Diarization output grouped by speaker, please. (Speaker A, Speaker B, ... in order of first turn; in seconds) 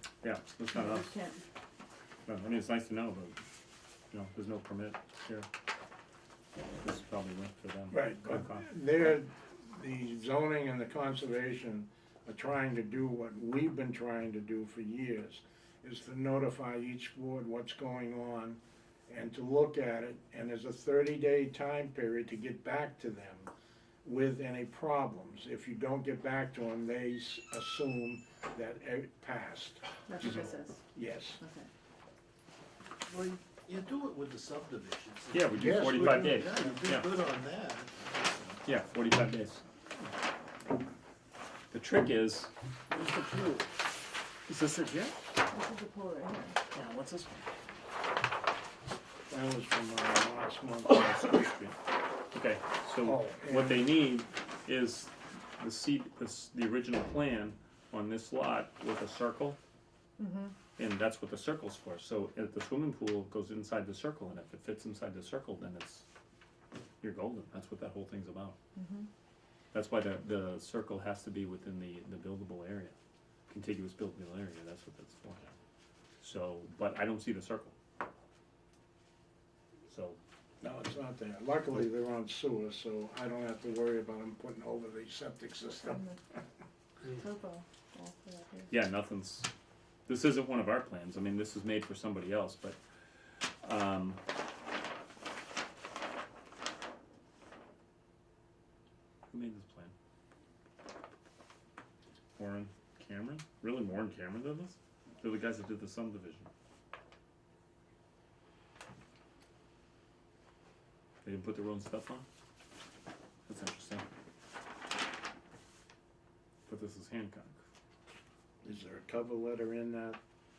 Speaker A: 0.2-1.1, 2.3-3.4, 4.1-5.5, 6.8-8.7, 35.3-37.1, 38.6-39.6, 41.7-43.5, 44.5-45.2, 46.7-47.4, 50.9-51.8, 52.3-59.6, 60.8-66.0, 67.0-68.6, 69.7-73.0, 73.5-75.5, 76.2-77.7, 79.9-80.2, 88.7-89.5, 90.1-92.8, 93.6-94.2, 99.3-99.9, 102.4-106.5, 111.2-112.2, 113.5-114.1, 116.7-117.6
Speaker B: 0.7-1.4, 30.1-30.8, 31.4-31.7, 45.5-46.6, 60.2-60.6, 68.8-69.1, 85.8-86.2, 87.1-88.8
Speaker C: 7.9-23.5, 24.0-31.4, 35.5-36.8, 49.3-51.5, 53.0-54.0, 80.6-86.1, 118.6-120.2
Speaker D: 33.0-38.6, 42.9-43.5